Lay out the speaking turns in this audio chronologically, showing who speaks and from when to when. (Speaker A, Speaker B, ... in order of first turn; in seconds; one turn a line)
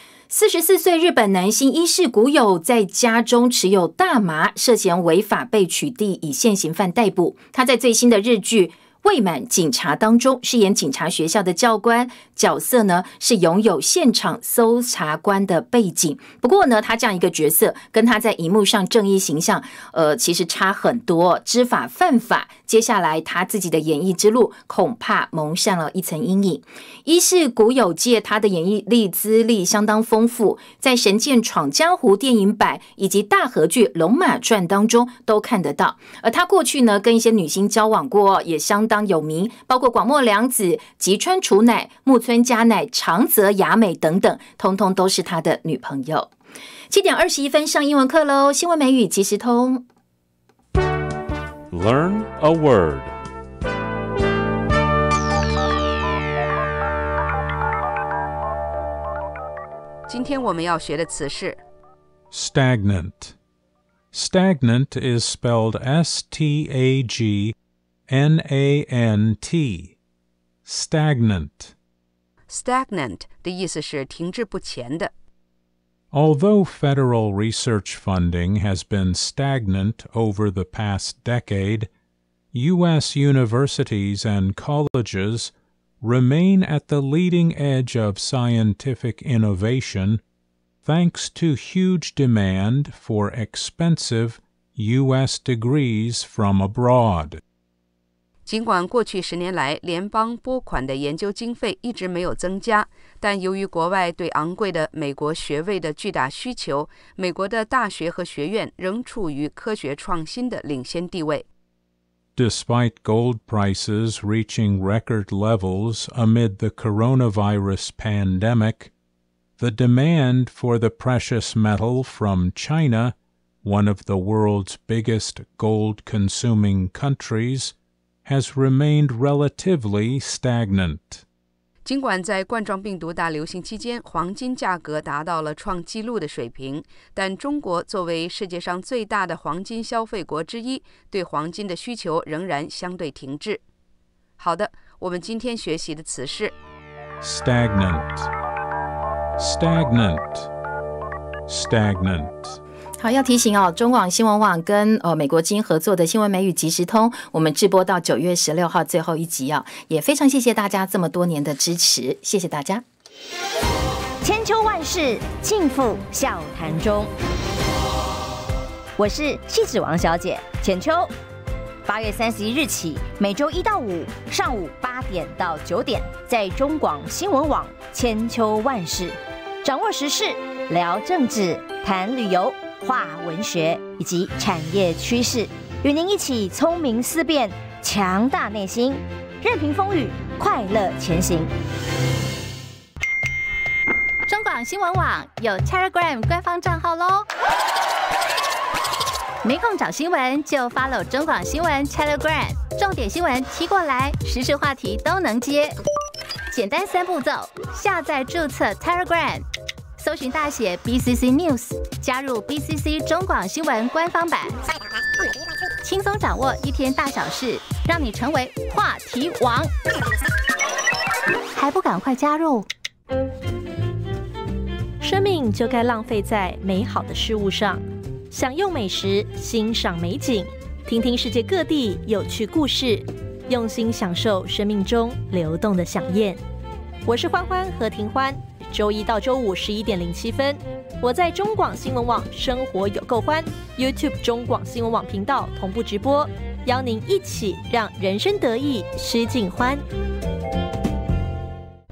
Speaker A: 0.3-46.3
Speaker A: 46.9-49.8
Speaker B: 51.7-53.1
Speaker C: 60.1-61.6
Speaker B: 62.3-63.3
Speaker B: 64.1-67.5
Speaker B: 68.1-69.9
Speaker B: 70.6-71.7
Speaker C: 72.5-75.1
Speaker B: 76.1-81.9
Speaker B: 82.5-90.2
Speaker B: 90.8-97.4
Speaker C: 98.5-111.5
Speaker B: 112.3-118.9
Speaker B: 119.6-127.7
Speaker B: 128.2-131.2
Speaker C: 131.8-143.6
Speaker C: 144.4-146.5
Speaker B: 147.2-148.3
Speaker B: 149.4-150.5
Speaker B: 151.5-152.6
Speaker A: 153.0-162.8
Speaker D: 164.2-167.1
Speaker D: 169.0-171.1
Speaker D: 171.8-191.5
Speaker A: 194.3-197.0
Speaker A: 199.4-205.6
Speaker A: 206.5-209.2
Speaker A: 210.0-214.3
Speaker A: 215.8-219.4
Speaker A: 221.6-222.3
Speaker E: 225.0-236.4
Speaker E: 237.0-249.8